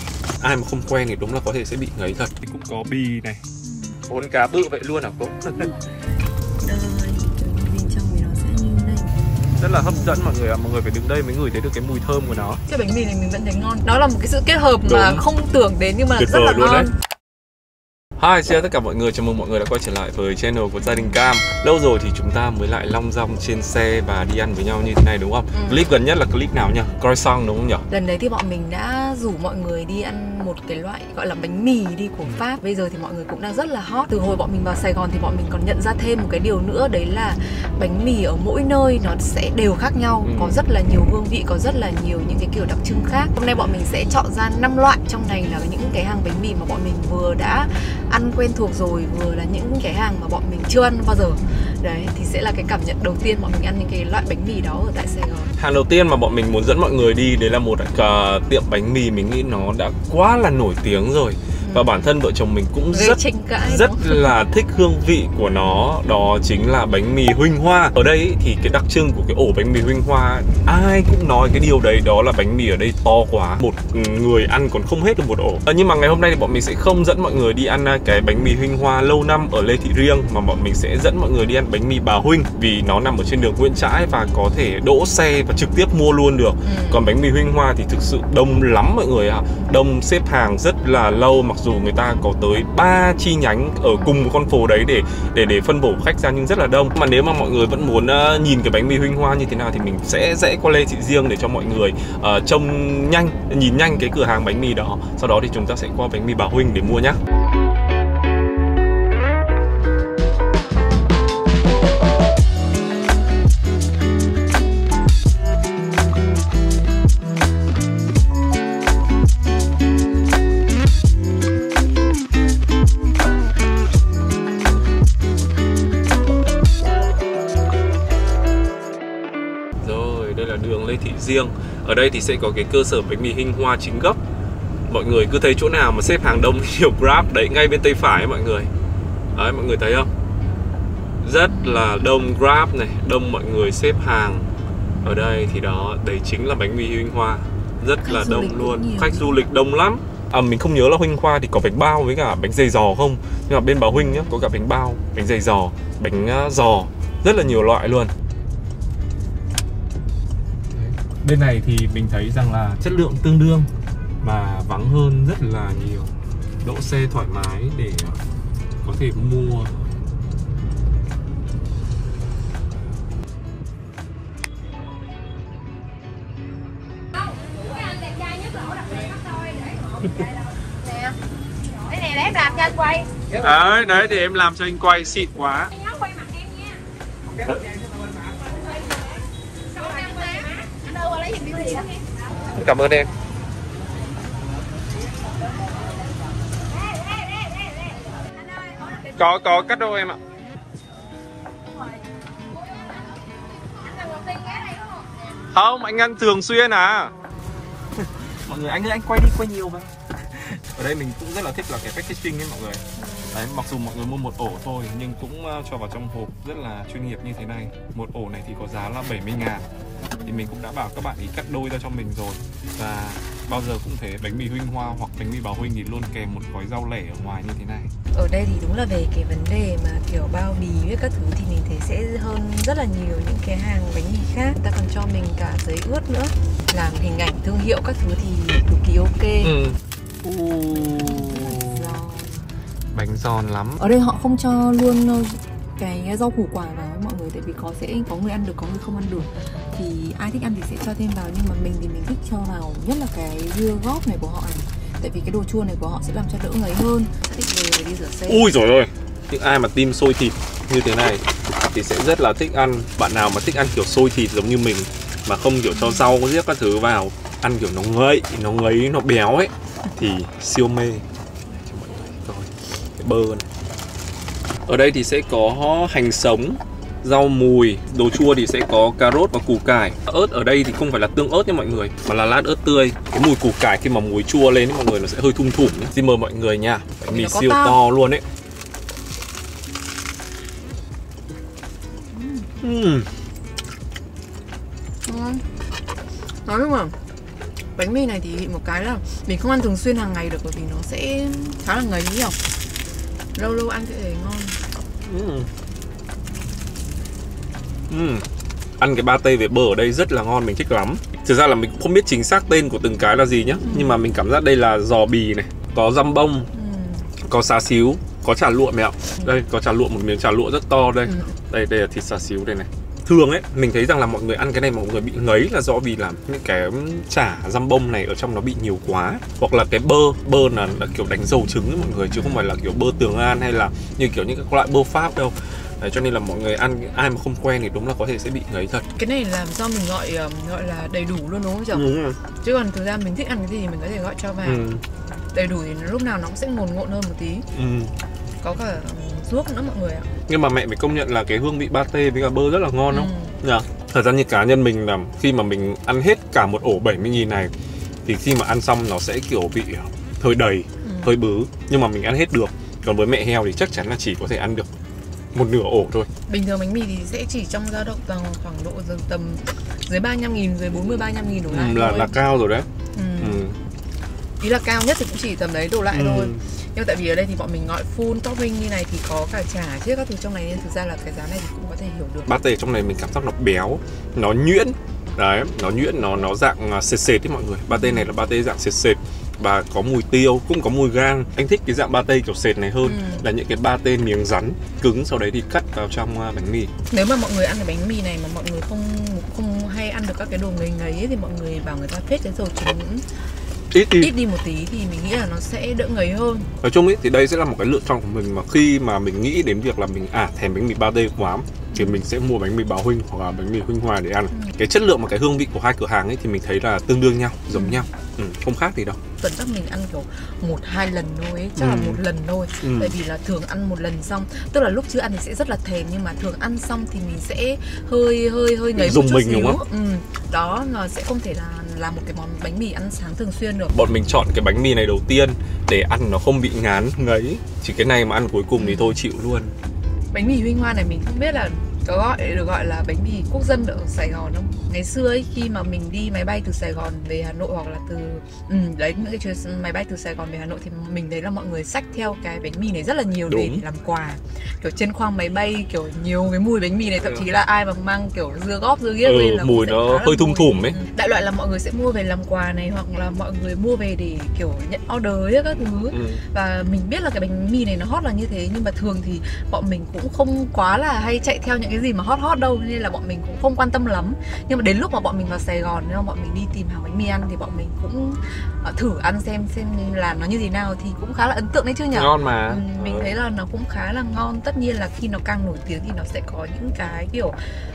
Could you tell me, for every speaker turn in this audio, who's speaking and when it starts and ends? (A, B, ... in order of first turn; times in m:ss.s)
0:00.4-0:03.4 A
0:04.1-0:05.7 A
0:06.6-0:09.1 B
0:09.6-0:12.6 A
0:12.7-0:16.9 B
0:14.8-0:15.2 A
0:16.2-0:16.9 A
0:18.2-0:27.8 A
0:25.5-0:25.8 B
0:27.9-0:55.5 B
0:40.2-0:40.6 A
0:55.6-1:47.2 A
1:01.6-1:01.9 B
1:02.9-1:04.3 B
1:26.6-1:27.0 B
2:09.8-2:14.2 A
2:14.9-2:18.7 A
2:19.4-2:20.1 A
2:21.2-2:24.5 A
2:21.5-2:21.8 B
2:25.0-2:38.1 A
2:28.0-2:29.4 B
2:33.9-2:34.4 B
2:40.7-2:43.7 A
2:44.2-2:48.2 A
2:48.8-2:49.8 A
2:57.4-3:01.1 C
3:01.8-3:03.1 C
3:03.3-3:05.7 A
3:05.7-3:06.8 C
3:08.7-3:09.0 C
3:09.7-3:12.0 C
3:12.5-3:13.1 A
3:16.7-3:19.1 C
3:19.1-3:20.2 A
3:22.6-3:25.1 C
3:25.5-3:27.1 A
3:28.3-3:39.7 A
3:40.2-3:47.9 A
3:48.1-3:59.5 B
3:59.4-4:02.0 A
4:00.7-4:02.5 B
4:02.9-4:03.8 A
4:03.8-4:18.5 B
4:18.3-4:33.5 A
4:25.7-4:26.1 B
4:34.7-4:48.2 A
4:47.1-4:47.8 B
4:52.1-4:52.5 B
4:52.6-4:53.1 A
4:55.1-4:55.4 B
4:56.5-4:57.0 B
4:57.8-5:02.4 B
5:03.4-5:04.6 B
5:05.1-5:05.5 A
5:07.9-5:08.2 A
5:08.8-5:16.5 A
5:13.6-5:14.0 B
5:16.5-5:17.1 B
5:17.2-5:38.9 A
5:21.1-5:21.3 B
5:39.0-5:41.9 B
5:41.7-5:42.2 A
5:42.4-5:44.6 B
5:44.4-5:44.8 A
5:45.3-5:47.5 B
5:47.5-5:47.9 A
5:48.4-5:50.1 B
5:50.3-5:57.5 A
5:52.9-5:53.4 B
5:58.0-6:04.7 A
6:00.8-6:01.1 B
6:05.3-6:06.1 A
6:06.3-6:12.1 B
6:11.5-6:12.7 A
6:12.9-6:13.4 B
6:13.2-6:13.6 A
6:14.4-6:22.3 B
6:15.9-6:16.4 A
6:22.3-6:36.7 A
6:27.7-6:28.1 B
6:32.8-6:33.3 B
6:36.9-6:43.0 B
6:43.7-6:44.1 A
6:44.0-6:46.5 B
6:46.6-6:59.0 A
6:57.5-6:57.8 B
6:59.2-7:13.8 B
7:01.6-7:02.0 A
7:02.6-7:03.0 A
7:08.8-7:09.6 A
7:13.7-7:19.5 A
7:18.6-7:19.0 B
7:20.1-8:07.4 B
7:33.3-7:33.6 A
7:37.0-7:37.3 A
7:39.0-7:40.8 A
7:45.9-7:46.2 A
8:01.9-8:03.1 A